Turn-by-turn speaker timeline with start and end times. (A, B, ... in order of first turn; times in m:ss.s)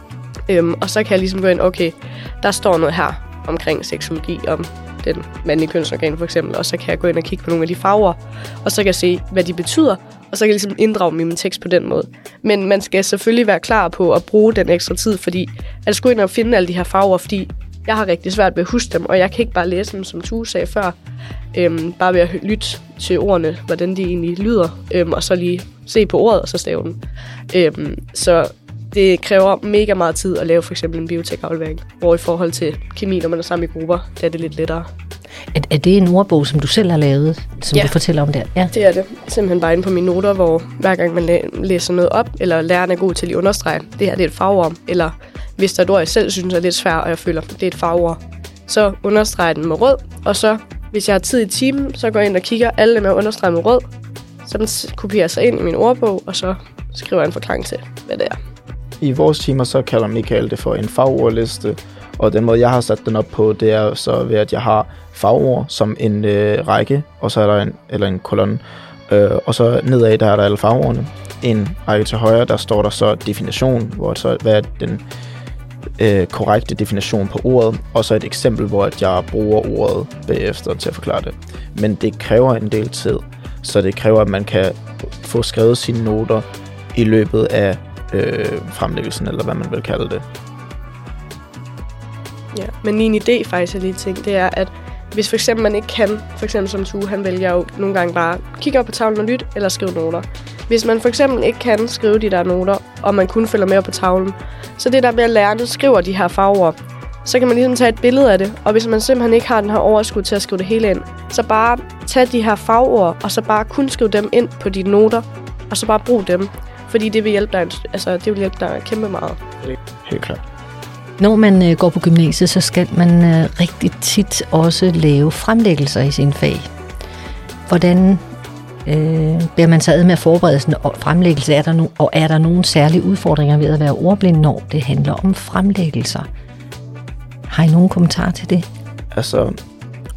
0:00.5-0:21.0 A
0:21.5-0:27.0 A
0:27.5-0:34.9 A
0:35.5-0:38.7 B
0:38.7-0:53.9 A
0:54.4-0:58.4 A
0:59.0-1:15.0 C
1:16.0-1:30.2 C
1:32.5-1:59.4 A
2:00.0-2:00.4 C
2:01.2-2:06.7 B
2:07.7-2:08.2 B
2:08.8-2:16.3 B
2:17.5-2:18.6 B
2:19.1-2:19.6 C